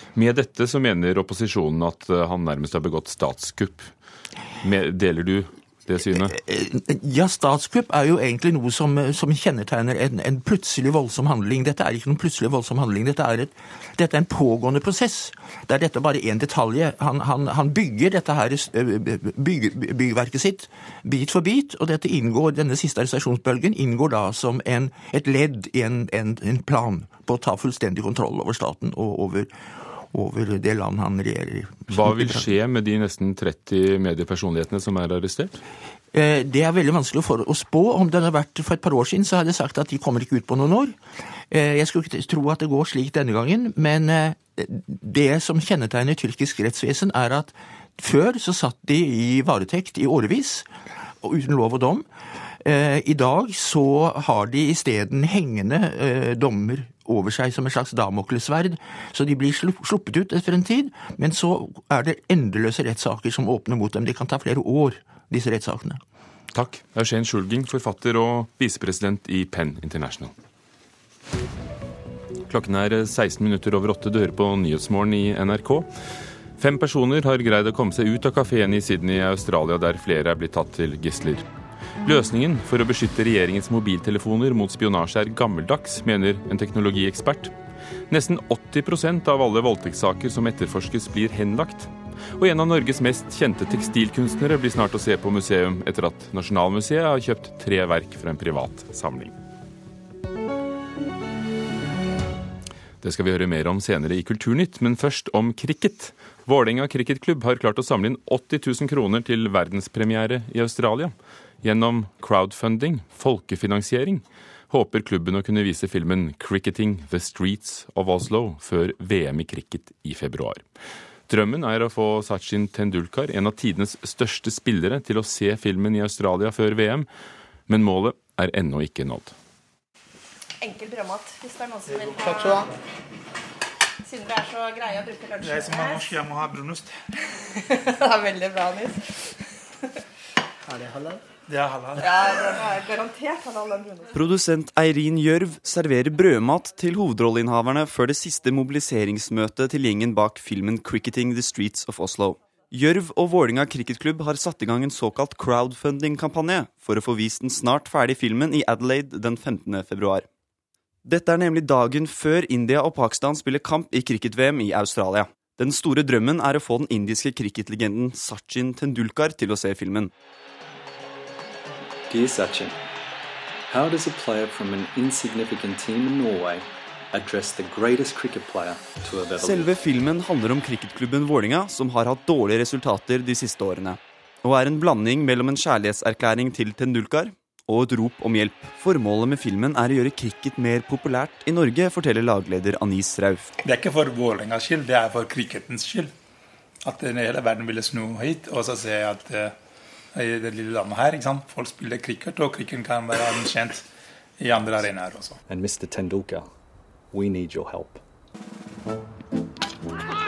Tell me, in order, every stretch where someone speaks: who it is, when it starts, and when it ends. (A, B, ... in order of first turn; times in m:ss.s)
0:00.1-0:03.9 A
0:04.6-0:06.3 A
0:06.2-0:32.5 B
0:31.9-0:35.6 A
0:36.1-0:41.0 B
0:41.5-0:50.7 B
0:51.2-0:52.0 B
0:52.6-1:06.0 B
1:06.5-1:10.3 A
1:12.5-1:15.9 A
1:16.6-1:21.4 A
1:22.0-1:27.5 A
1:28.1-1:39.3 A
1:43.0-2:00.6 A
2:01.3-2:07.1 A
2:07.7-2:09.3 A
2:10.6-2:12.7 C
2:14.0-2:16.2 C
2:15.4-2:17.0 D
2:17.6-2:19.3 C
2:20.7-2:21.2 C
2:21.5-2:22.6 D
2:22.0-2:24.1 C
2:24.1-2:40.2 E
2:41.0-2:50.1 E
2:52.1-2:52.8 F
2:53.7-2:59.7 F
2:59.4-3:13.5 E
3:13.6-3:16.1 D
3:16.8-3:19.6 D
3:20.1-3:23.8 D
3:24.4-3:25.4 D
3:25.5-3:26.5 F
3:27.1-3:28.0 F